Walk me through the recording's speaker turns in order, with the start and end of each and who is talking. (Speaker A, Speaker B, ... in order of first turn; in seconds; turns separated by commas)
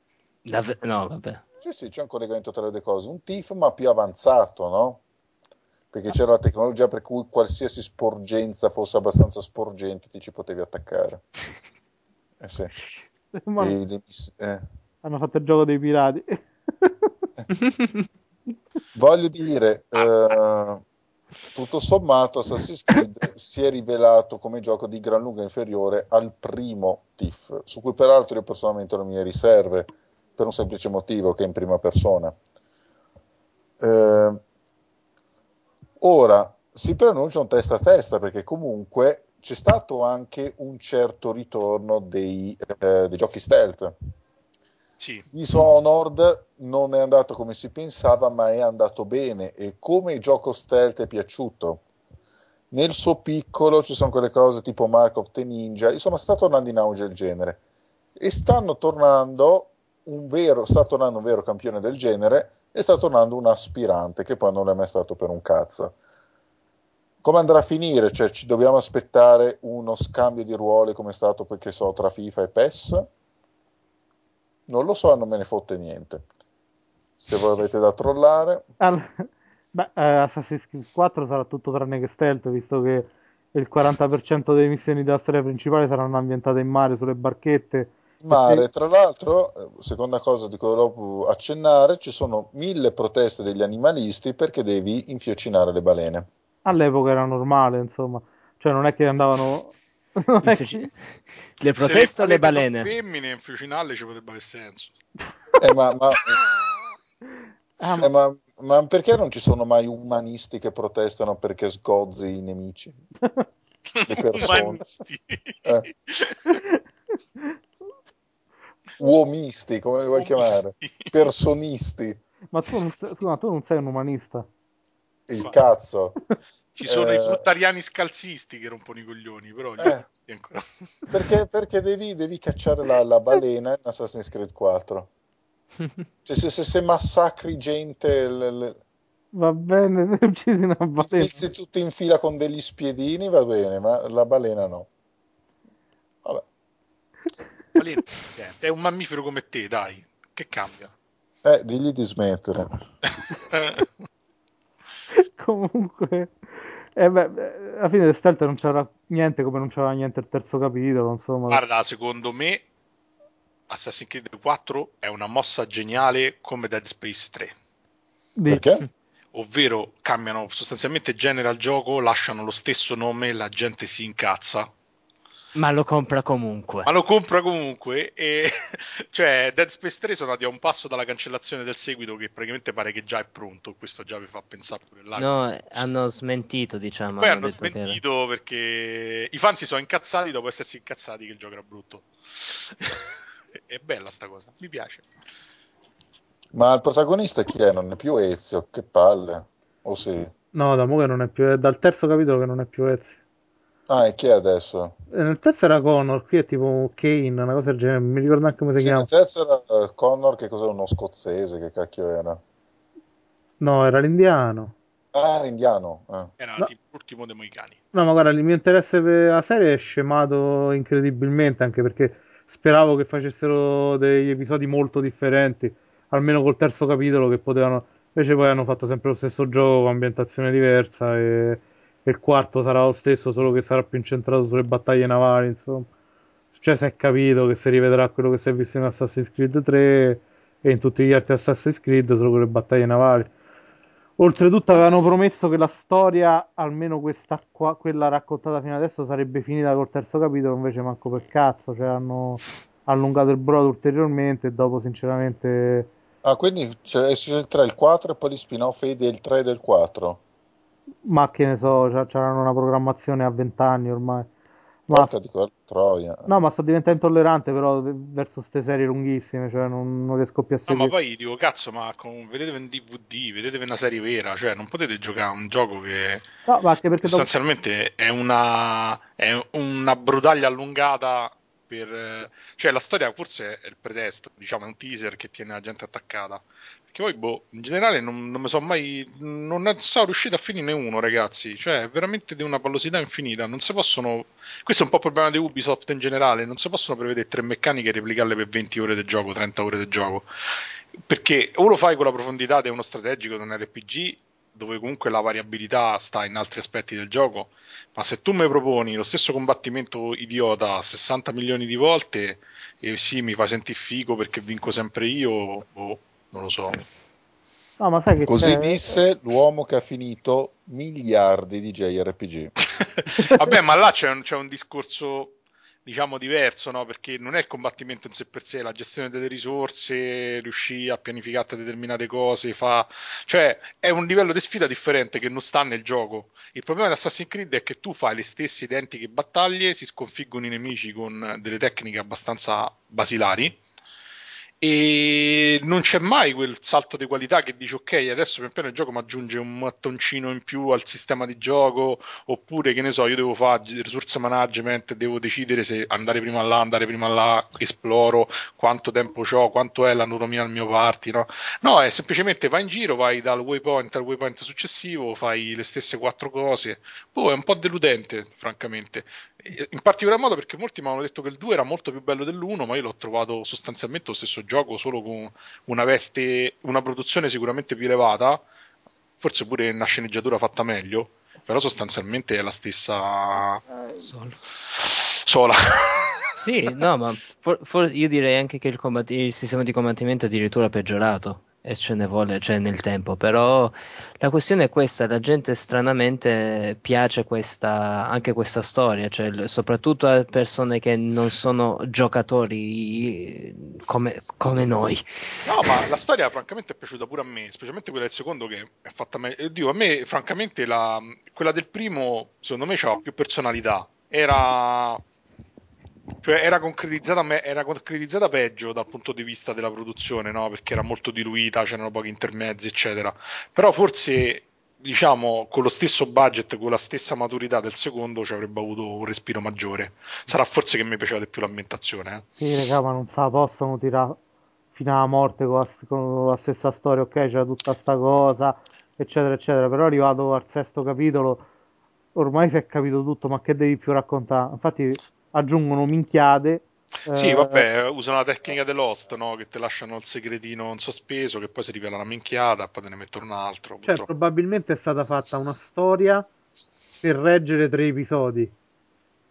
Speaker A: 0.5-1.4, Speaker B: 1.6-5.0, Speaker B: 5.9-11.2, Speaker B: 12.4-12.7, Speaker C: 13.3-13.8, Speaker B: 13.6-14.7, Speaker C: 15.0-17.1, Speaker B: 18.9-20.8, Speaker B: 21.5-32.3, Speaker B: 33.8-34.4, Speaker B: 36.0-44.0, Speaker D: 45.0-45.3, Speaker B: 45.3-51.8, Speaker B: 52.7-57.6, Speaker B: 58.2-65.9, Speaker B: 67.2-73.1, Speaker B: 74.7-76.2, Speaker B: 77.2-78.7, Speaker C: 78.8-88.7, Speaker B: 88.2-96.3, Speaker C: 96.7-100.9, Speaker A: 100.4-101.0, Speaker A: 101.6-102.9, Speaker D: 101.8-104.9, Speaker B: 105.6-106.4, Speaker C: 107.8-108.1, Speaker B: 108.0-113.0, Speaker D: 114.0-116.6, Speaker B: 114.1-114.8, Speaker C: 116.5-116.8, Speaker B: 119.0-122.2, Speaker D: 120.1-121.1, Speaker C: 122.5-124.5, Speaker B: 125.3-126.2, Speaker D: 126.8-130.7, Speaker B: 126.8-127.4, Speaker B: 131.1-135.1, Speaker B: 136.3-138.8, Speaker C: 139.3-141.4, Speaker B: 141.0-144.9, Speaker D: 147.8-150.9, Speaker B: 151.4-152.8, Speaker D: 153.5-153.9, Speaker C: 155.2-156.3, Speaker C: 157.0-161.6, Speaker D: 161.5-162.7, Speaker D: 163.7-167.5, Speaker C: 168.4-168.7, Speaker B: 168.5-168.8, Speaker D: 169.3-174.7, Speaker A: 175.6-176.9, Speaker D: 176.8-185.9, Speaker A: 185.2-188.0, Speaker D: 187.2-193.0, Speaker D: 193.6-195.1, Speaker B: 196.5-200.3, Speaker C: 200.5-203.2, Speaker B: 203.9-204.9, Speaker C: 205.1-209.1, Speaker B: 208.8-212.4, Speaker C: 213.6-214.7, Speaker B: 215.1-216.3, Speaker D: 216.4-217.8, Speaker C: 217.9-235.9, Speaker C: 236.6-243.3, Speaker C: 244.2-255.9, Speaker B: 256.2-260.2, Speaker C: 261.1-264.3, Speaker C: 264.9-265.1, Speaker B: 264.9-266.3, Speaker C: 266.3-270.9, Speaker D: 270.7-276.2, Speaker C: 276.5-277.3, Speaker D: 277.0-300.3, Speaker D: 301.1-316.8, Speaker C: 317.8-318.9, Speaker B: 318.3-322.5, Speaker D: 323.0-343.6, Speaker D: 344.6-378.4, Speaker D: 379.2-383.6, Speaker A: 384.0-384.4, Speaker D: 384.7-386.8, Speaker A: 386.4-405.1, Speaker D: 405.4-415.0, Speaker D: 416.2-432.2, Speaker C: 432.4-434.2, Speaker C: 434.8-441.5, Speaker C: 442.2-447.7, Speaker D: 447.1-454.1, Speaker C: 453.9-456.3, Speaker C: 457.0-458.5